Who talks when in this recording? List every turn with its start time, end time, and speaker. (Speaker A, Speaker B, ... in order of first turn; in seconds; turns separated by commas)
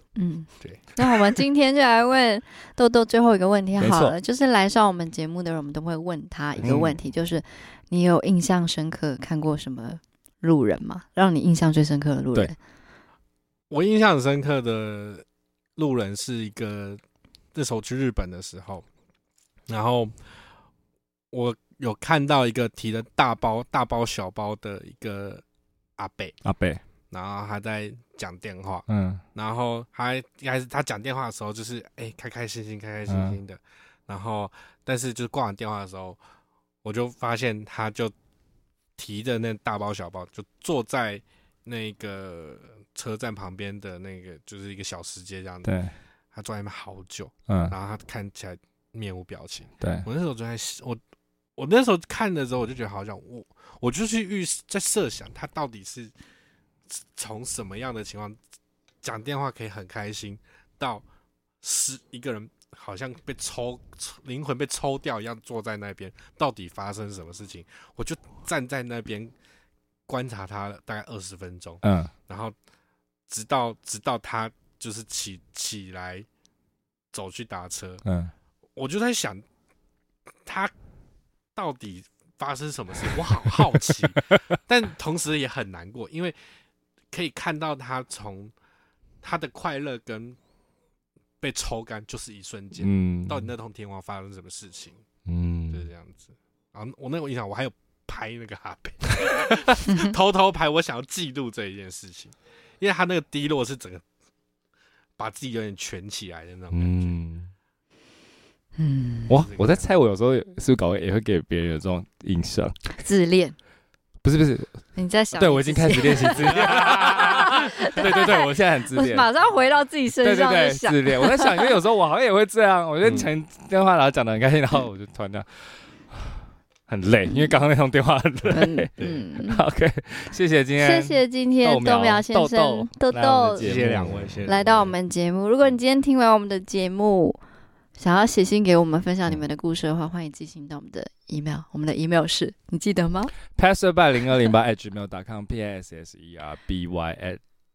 Speaker A: 0.1-12.5, Speaker B: 3.8-4.1, Speaker C: 6.6-7.0, Speaker B: 6.6-6.9, Speaker C: 13.7-15.2, Speaker C: 15.8-17.0, Speaker C: 17.5-18.9, Speaker C: 19.7-20.1, Speaker C: 21.3-25.4, Speaker C: 26.0-26.4, Speaker B: 26.4-26.8, Speaker C: 27.1-36.2, Speaker B: 28.9-29.2, Speaker B: 33.1-33.4, Speaker C: 36.8-38.1, Speaker C: 39.0-45.7, Speaker B: 45.6-45.9, Speaker C: 46.3-51.0, Speaker B: 47.5-47.7, Speaker B: 49.8-50.0, Speaker C: 51.6-56.1, Speaker C: 56.9-58.4, Speaker C: 59.0-61.0, Speaker C: 61.6-69.3, Speaker C: 70.1-72.5, Speaker B: 71.8-72.1, Speaker C: 73.3-76.3, Speaker C: 77.1-78.0, Speaker B: 78.0-78.3, Speaker C: 78.8-79.4, Speaker C: 80.4-80.7, Speaker C: 81.5-86.6, Speaker C: 87.1-88.5, Speaker C: 89.2-90.4, Speaker C: 91.4-95.0, Speaker B: 92.8-93.5, Speaker B: 95.2-95.9, Speaker C: 95.7-104.0, Speaker A: 99.9-100.1, Speaker C: 105.2-107.1, Speaker B: 106.7-107.5, Speaker A: 108.8-109.4, Speaker B: 109.3-112.9, Speaker C: 109.3-109.9, Speaker A: 113.0-113.5, Speaker B: 114.2-119.3, Speaker A: 114.9-121.7, Speaker C: 116.5-117.3, Speaker B: 120.2-134.5, Speaker C: 123.0-123.3, Speaker A: 127.3-127.5, Speaker A: 128.5-129.6, Speaker C: 129.0-129.2, Speaker A: 130.8-133.7, Speaker C: 133.6-134.9, Speaker A: 134.4-137.4, Speaker A: 138.0-143.3, Speaker B: 143.5-147.4